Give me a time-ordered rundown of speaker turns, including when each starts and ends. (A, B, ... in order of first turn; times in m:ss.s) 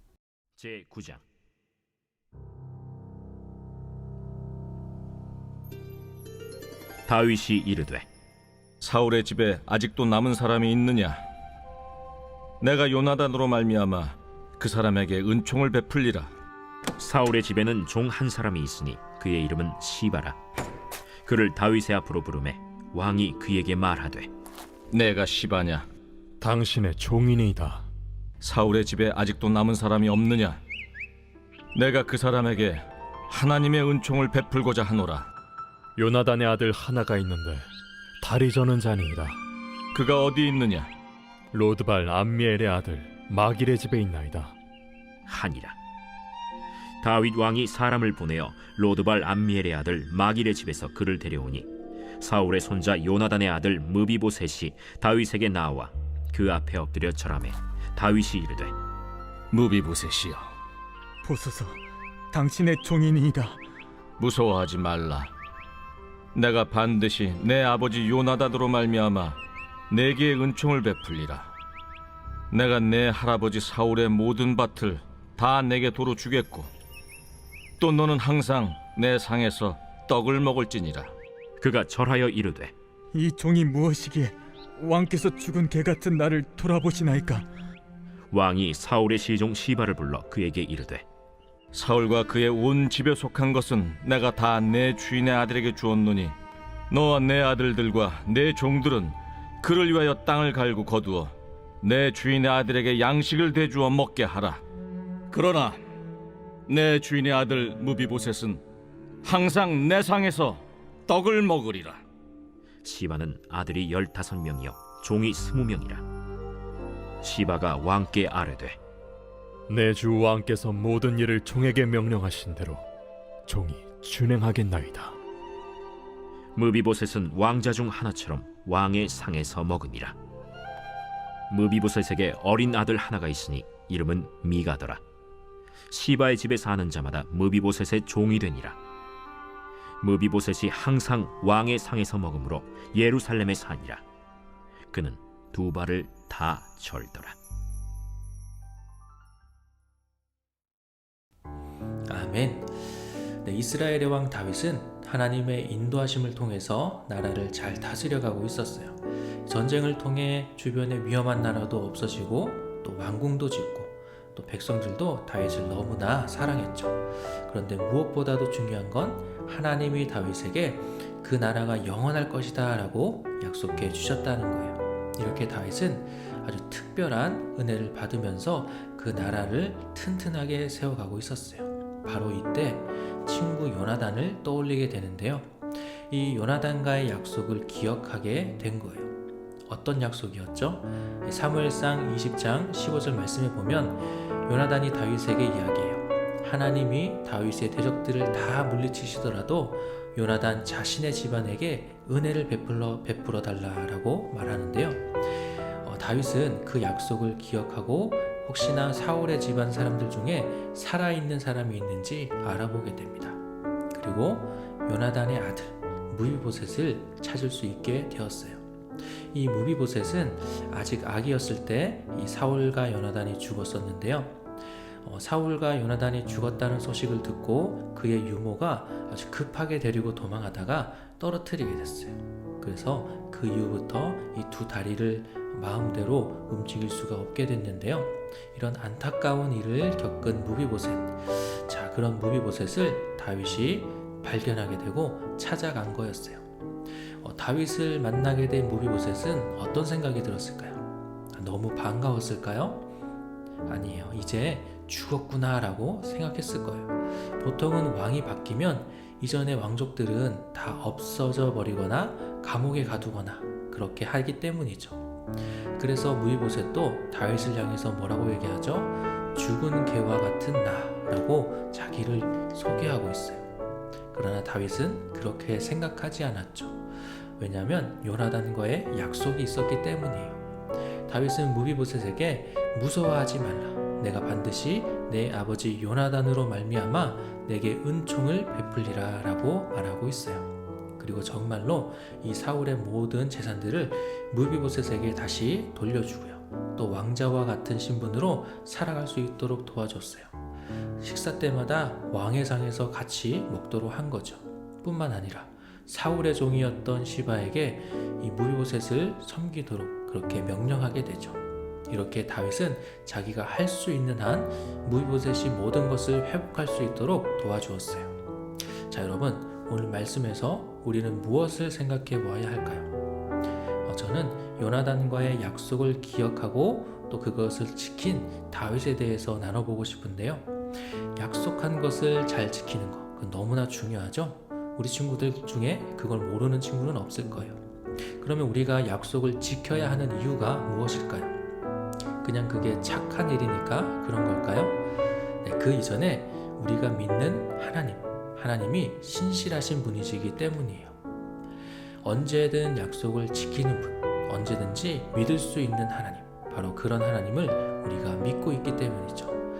0:00.6-0:01.2 A
0:07.1-0:08.0 A
0:08.8-0:11.2 B
0:12.6-0:16.3 B
0:17.0-0:20.4 A
0:21.2-0:24.3 A
0:24.9-0:25.9 B
0:26.4-0:27.8 C
0:28.4-0:30.6 B
0:31.7-0:35.3 B
0:36.0-0:37.7 C
0:38.2-0:39.4 C
0:39.9-0:40.9 B
0:41.5-0:44.6 C
0:45.2-0:45.8 A
0:47.0-0:58.7 A
0:59.5-1:00.5 B
1:01.2-1:01.8 D
1:02.3-1:03.6 D
1:04.2-1:05.3 B
1:06.3-1:09.4 B
1:09.9-1:11.5 B
1:12.5-1:16.7 B
1:17.8-1:21.1 B
1:21.6-1:22.7 A
1:23.1-1:27.4 D
1:28.3-1:31.0 A
1:31.7-1:36.3 B
1:36.9-1:44.6 B
1:45.3-1:45.8 B
1:46.7-1:48.6 B
1:49.2-1:52.0 B
1:52.8-1:56.0 A
1:57.2-1:58.8 A
1:59.7-2:02.8 C
2:03.5-2:05.2 C
2:06.5-2:10.2 A
2:11.5-2:15.0 A
2:15.9-2:18.8 A
2:20.0-2:24.0 A
2:24.9-2:27.4 A
2:32.1-3:09.1 E
3:09.7-3:44.4 E
3:45.0-4:06.4 E
4:07.1-4:12.9 E
4:13.6-4:25.0 E
4:25.6-4:33.5 E
4:34.1-4:40.4 E
4:41.0-5:00.3 E
5:01.0-5:18.2 E
5:18.7-5:22.9 E
5:23.8-5:41.4 E
5:42.2-5:44.8 E
5:45.4-5:51.0 E
5:52.0-5:59.4 E